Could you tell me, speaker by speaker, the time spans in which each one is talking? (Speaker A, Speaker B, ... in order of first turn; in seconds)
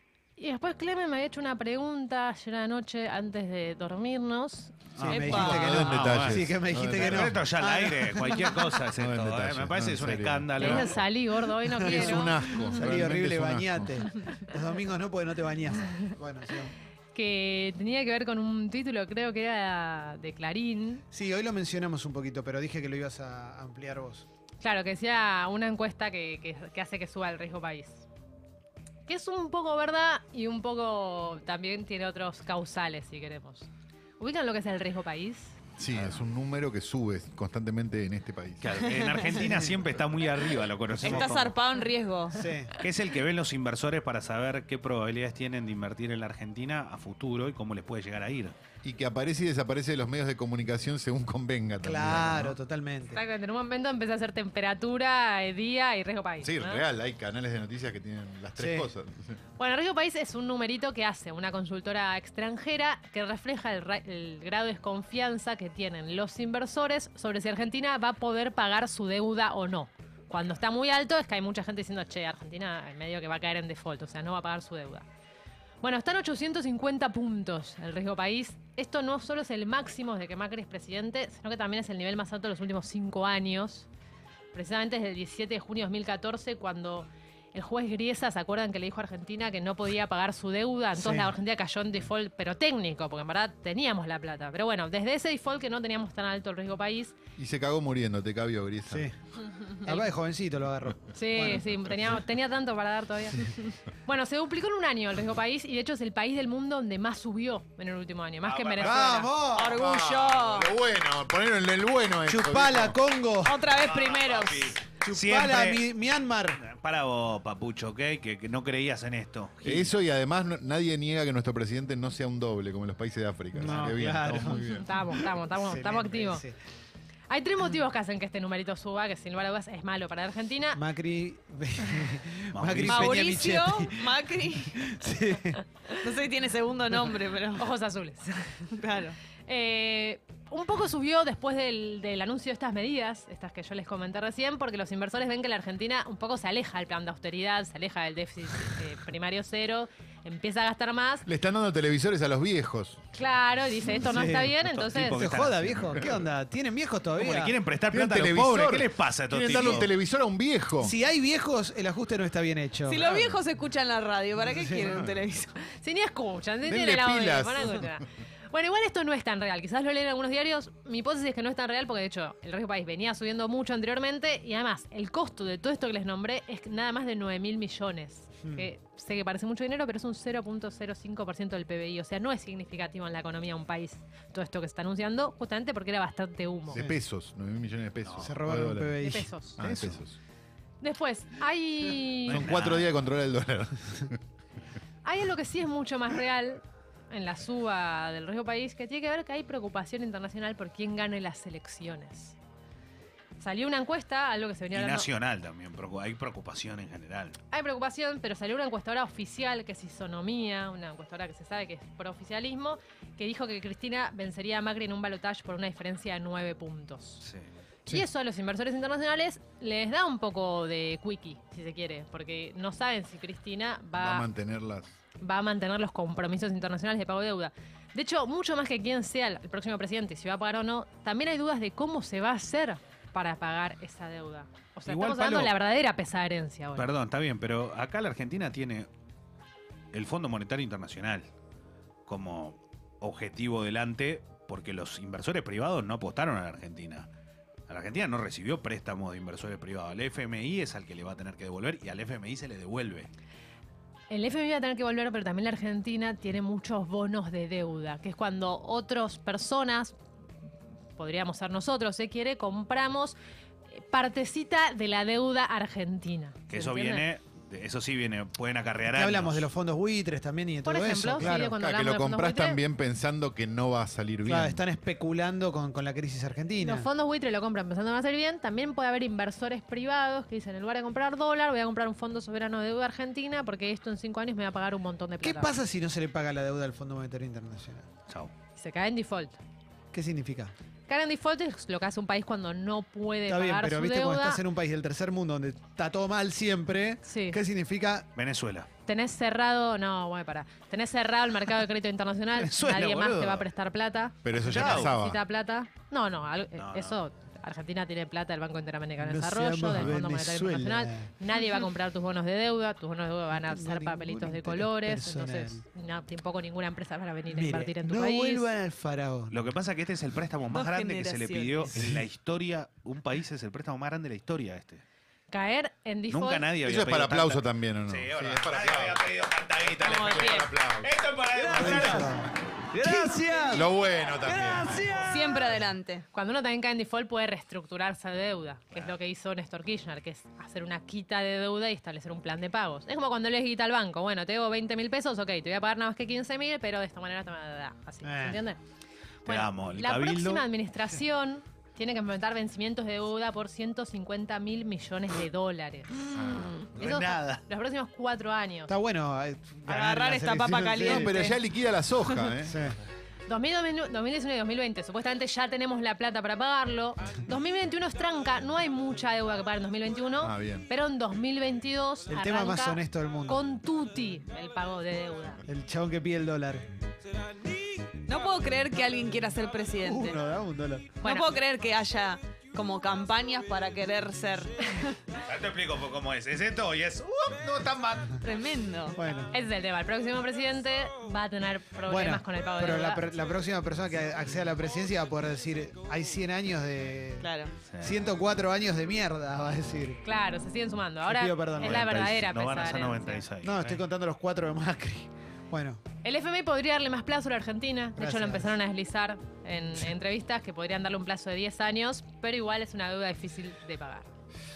Speaker A: 0.4-4.9, 10.6-12.8, 17.1-21.0, 24.6-28.1, 29.1-33.7, 34.2-35.6, 53.1-56.8, 59.6-75.0, 75.8-83.9, 84.5-97.2, 99.8-100.1, 101.1-109.4, 124.5-126.4, 127.3-130.8, 137.6-138.7, 139.4-151.2, 153.1-155.3, 165.6-186.8, 189.0-189.6, 190.8-192.4, 195.0-202.3, 203.4-205.1, 207.5-217.2, 217.9-224.3, 225.2-236.9, 254.1-259.9, 261.0-263.2, 263.7-267.1, 270.6-272.6, 276.6-285.5, 288.6-289.4, 290.9-294.4, 297.1-297.4, 298.9-318.5, 325.3-326.5, 336.1-348.6, 349.2-358.7, 363.3-375.4, 381.0-381.3, 389.3-393.1, 400.0-403.2, 406.0-414.1
Speaker B: 4.9-11.0, 38.6-41.5, 42.8-48.5, 108.4-109.3, 113.7-115.9, 116.6-119.9, 132.5-133.2, 154.6-156.2, 157.2-159.9, 188.0-188.3, 189.6-190.0, 192.3-192.9, 204.7-207.4, 234.9-235.5, 236.8-238.9, 239.9-241.2, 242.1-247.1, 247.7-253.1, 266.5-269.5, 298.1-298.7, 302.4-303.5, 304.4-304.9, 306.6-306.9, 319.3-324.8, 326.1-335.4, 349.2-350.4, 356.8-357.4, 385.2-388.2, 397.7-398.0, 401.6-403.8
Speaker C: 5.0-8.7, 11.8-16.7, 21.1-24.2, 39.4-39.7, 42.3-42.8, 51.8-53.2, 58.6-58.9, 90.9-91.3, 98.9-99.1, 99.8-101.7, 108.8-109.8, 112.3-113.6, 115.0-116.6, 123.5-124.6, 125.5-126.5, 130.7-135.6, 154.0-157.5, 160.8-163.4, 164.4-165.1, 178.4-178.7, 186.7-186.9, 188.2-189.3, 268.9-271.5, 274.2-276.9, 285.2-287.9, 289.9-290.5, 293.3-298.1, 309.0-311.1, 313.4-315.6, 317.3-319.5, 331.4-333.6, 334.5-335.1, 348.0-348.4, 358.7-361.2, 362.4-362.8, 372.1-373.4, 375.4-376.7, 379.8-381.0, 388.9-389.3, 391.9-397.3, 397.8-400.0, 401.0-401.9, 403.4-405.8, 408.0-408.5
Speaker D: 5.1-5.9, 41.0-42.5, 109.4-110.7, 113.4-114.8, 132.8-134.8, 136.0-137.7, 138.7-139.2, 162.8-165.6, 320.5-321.7, 329.8-330.5, 335.1-336.1, 359.7-361.4, 378.1-380.2, 381.0-385.0, 388.2-389.0, 397.2-397.5
Speaker E: 5.1-7.5, 8.9-11.0, 11.8-14.1, 35.8-39.2, 48.8-52.6, 56.4-59.4, 97.4-99.1, 109.6-113.0, 119.6-124.8, 151.2-153.0, 157.9-160.9, 166.7-167.9, 186.7-189.0, 189.6-190.2, 192.2-194.2, 224.0-224.9, 271.2-274.6, 304.2-305.2, 326.6-329.1, 329.6-330.9, 331.6-331.9, 333.5-335.0, 360.8-362.6, 370.2-370.7